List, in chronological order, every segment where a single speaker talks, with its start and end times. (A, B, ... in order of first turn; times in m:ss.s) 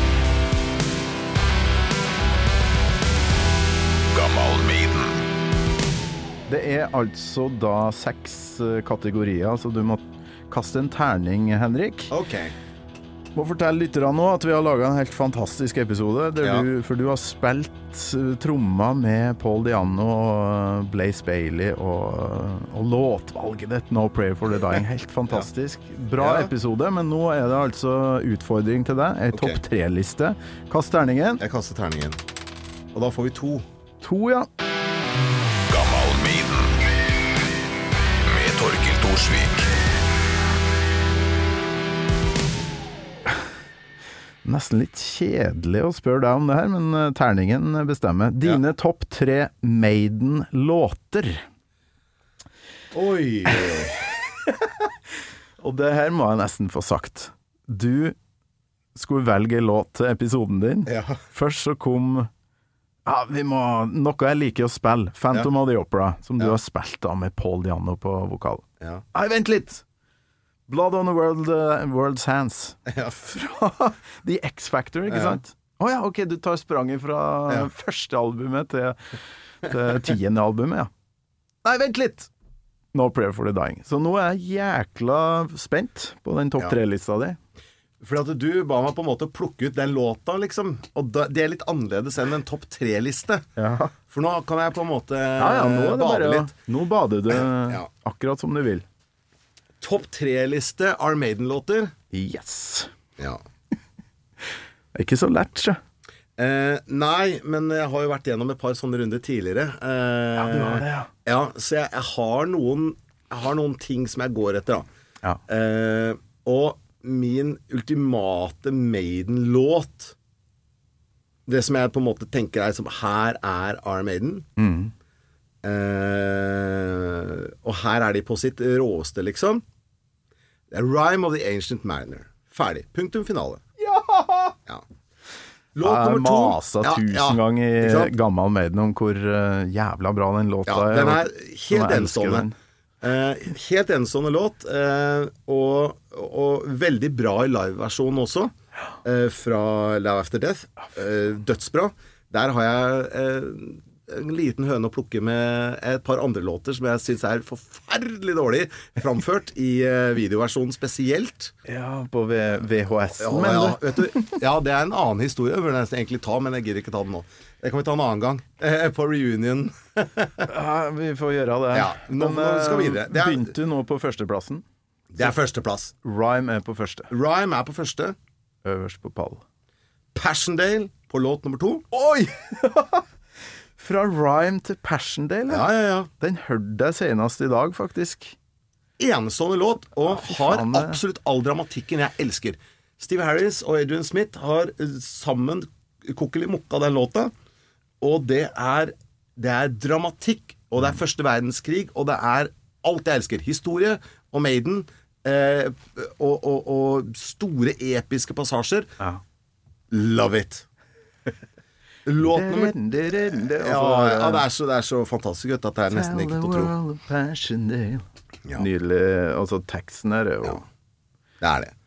0:04.1-0:05.2 A
0:06.5-0:12.1 B
0:12.1-0:12.5 C
0:13.3-0:31.4 B
0:16.4-0:16.7 C
0:26.2-0:26.5 C
0:29.3-0:29.6 C
0:31.4-0:32.2 C
0:32.9-0:33.6 C
0:34.0-0:34.5 B
0:35.7-0:36.7 A
0:38.3-0:39.7 A
0:44.4-0:51.4 B
0:52.9-0:54.0 C
0:55.6-0:58.1 B
0:58.9-1:02.3 B
1:00.8-1:01.2 C
1:03.0-1:09.8 B
1:10.7-1:19.0 B
1:12.9-1:13.2 C
1:15.1-1:15.4 C
1:19.6-1:20.9 B
1:21.6-1:22.3 B
1:22.9-1:27.4 B
1:28.0-1:33.4 C
1:33.6-1:33.9 B
1:34.1-1:36.6 C
1:35.4-1:38.8 B
1:37.3-1:37.9 C
1:39.8-1:41.9 C
1:42.1-1:42.9 B
1:44.9-1:45.8 B
1:46.4-1:54.8 C
1:50.4-1:51.1 B
1:55.5-2:00.1 C
2:01.4-2:04.5 C
2:04.6-2:04.9 B
2:05.6-2:09.6 C
2:10.7-2:13.6 C
2:13.8-2:14.6 B
2:15.8-2:18.1 C
2:15.8-2:22.5 B
2:20.7-2:22.5 C
2:23.0-2:28.5 C
2:29.0-2:41.5 C
2:41.6-2:44.3 B
2:43.2-2:50.5 C
2:50.5-2:54.6 B
2:51.7-2:53.6 C
2:55.1-2:55.9 C
2:56.0-2:57.1 B
2:57.1-2:58.1 C
2:58.6-2:59.4 B
3:00.1-3:01.8 C
3:01.9-3:03.0 B
3:03.8-3:08.4 B
3:05.5-3:06.1 C
3:09.0-3:17.3 C
3:10.0-3:11.0 B
3:18.0-3:28.9 C
3:29.9-3:30.6 C
3:32.0-3:36.7 C
3:32.2-3:34.4 B
3:35.9-3:40.6 B
3:41.4-3:41.7 C